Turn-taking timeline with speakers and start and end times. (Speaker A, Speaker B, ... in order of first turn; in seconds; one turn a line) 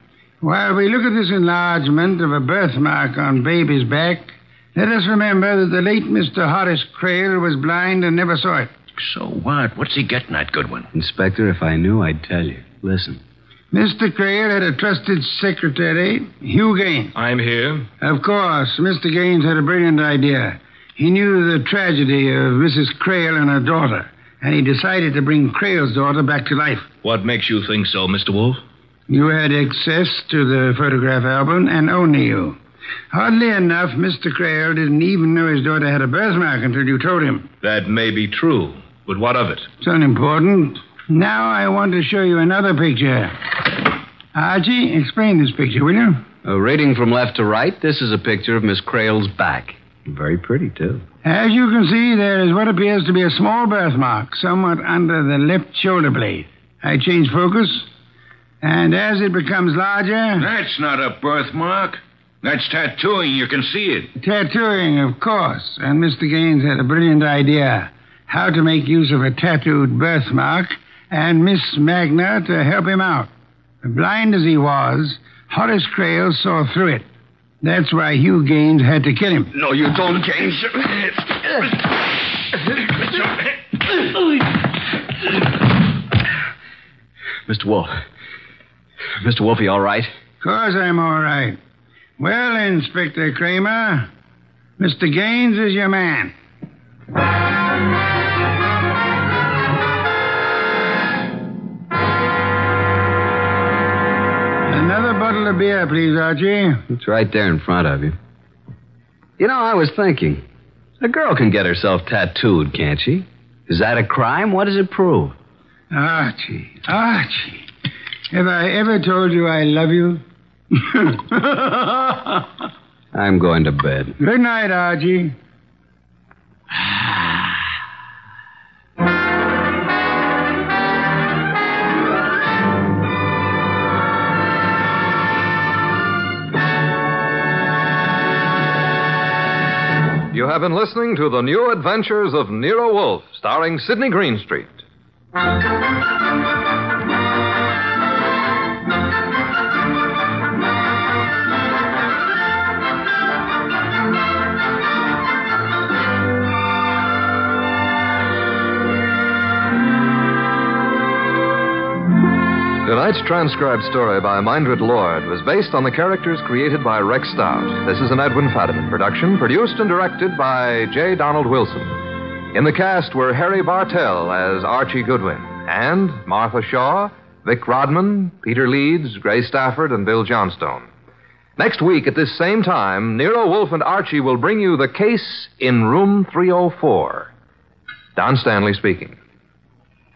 Speaker A: 0.4-8.7
Speaker B: 9.0-10.9
Speaker C: 10.9-13.2
Speaker A: 13.7-17.1
Speaker D: 17.1-17.9
Speaker A: 18.0-26.9
Speaker D: 27.0-28.6
Speaker A: 29.1-32.6
Speaker A: 33.1-37.5
Speaker D: 37.6-39.7
Speaker A: 39.8-43.3
Speaker A: 44.4-46.2
Speaker C: 46.4-51.0
Speaker A: 51.2-57.9
Speaker A: 58.6-60.5
Speaker B: 60.4-64.1
Speaker A: 64.2-73.3
Speaker A: 73.8-77.0
Speaker A: 77.6-79.5
Speaker C: 79.5-81.7
Speaker C: 87.5-88.0
Speaker C: 89.2-90.1
Speaker A: 90.4-91.6
Speaker A: 92.2-94.1
Speaker A: 94.8-96.3
Speaker A: 104.7-106.8
Speaker C: 106.9-108.2
Speaker C: 109.4-110.4
Speaker C: 111.0-115.3
Speaker A: 115.9-117.7
Speaker A: 118.3-122.5
Speaker C: 123.1-124.2
Speaker A: 124.2-125.3
Speaker A: 126.7-127.6
Speaker E: 140.3-144.8
Speaker E: 162.8-172.0
Speaker E: 172.5-180.9
Speaker E: 181.6-187.3
Speaker E: 188.2-189.2